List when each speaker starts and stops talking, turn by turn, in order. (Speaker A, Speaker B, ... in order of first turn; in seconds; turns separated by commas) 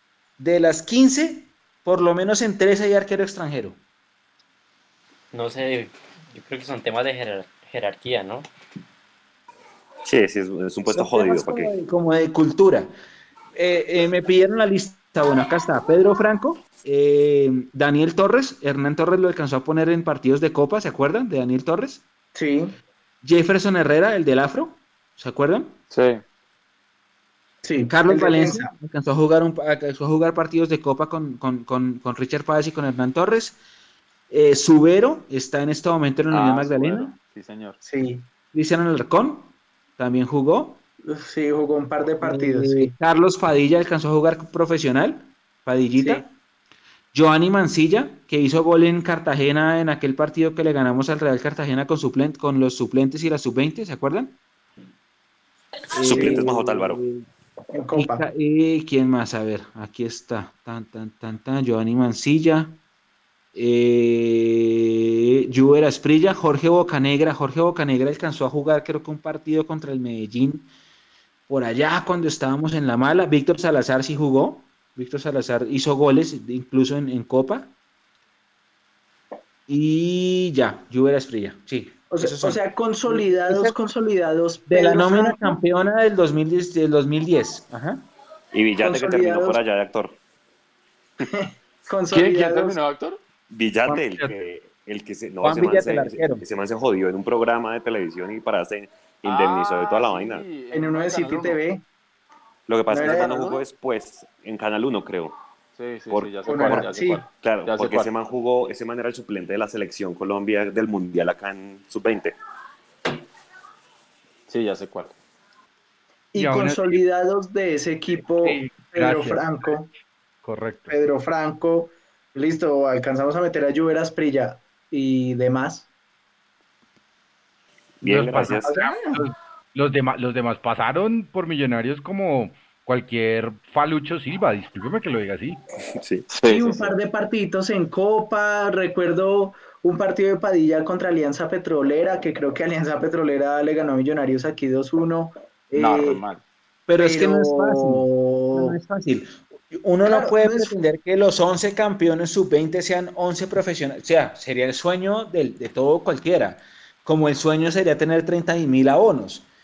Speaker A: 0.4-3.8, Speaker B: 5.3-8.5, Speaker C: 10.0-11.7, Speaker A: 10.8-12.9, Speaker A: 13.5-22.0, Speaker D: 22.3-22.8, Speaker A: 23.2-25.8, Speaker E: 25.9-26.2, Speaker D: 27.6-28.7, Speaker A: 27.9-33.6, Speaker A: 34.3-37.1, Speaker E: 36.3-37.8, Speaker D: 37.8-38.3, Speaker A: 38.5-40.8, Speaker D: 41.0-42.9, Speaker A: 42.2-46.3, Speaker D: 46.0-46.2, Speaker A: 47.1-54.4, Speaker C: 55.9-57.0, Speaker A: 55.9-57.2, Speaker D: 56.1-56.4, Speaker D: 57.7-58.2, Speaker A: 57.9-62.8, Speaker A: 63.5-70.7, Speaker A: 71.5-77.7, Speaker A: 79.7-83.8, Speaker D: 82.1-85.6, Speaker A: 84.7-88.0, Speaker C: 88.5-90.2, Speaker D: 88.8-89.6, Speaker D: 91.2-92.8, Speaker E: 92.1-93.2, Speaker C: 93.5-100.5, Speaker A: 95.4-96.4, Speaker E: 99.2-101.6, Speaker D: 100.7-101.8, Speaker C: 102.7-105.3, Speaker D: 102.9-103.6, Speaker E: 105.8-108.1, Speaker C: 106.1-112.3, Speaker D: 106.5-107.3, Speaker E: 114.5-115.1, Speaker D: 116.3-119.9, Speaker F: 116.3-117.0, Speaker F: 118.4-119.5, Speaker F: 120.4-120.9, Speaker D: 120.9-125.9, Speaker C: 128.0-128.7, Speaker F: 128.1-135.6, Speaker D: 128.6-129.2, Speaker C: 136.0-136.3, Speaker E: 136.3-136.9, Speaker D: 136.4-146.2, Speaker E: 145.7-146.4, Speaker A: 146.9-159.5, Speaker D: 147.0-148.8, Speaker D: 150.0-150.7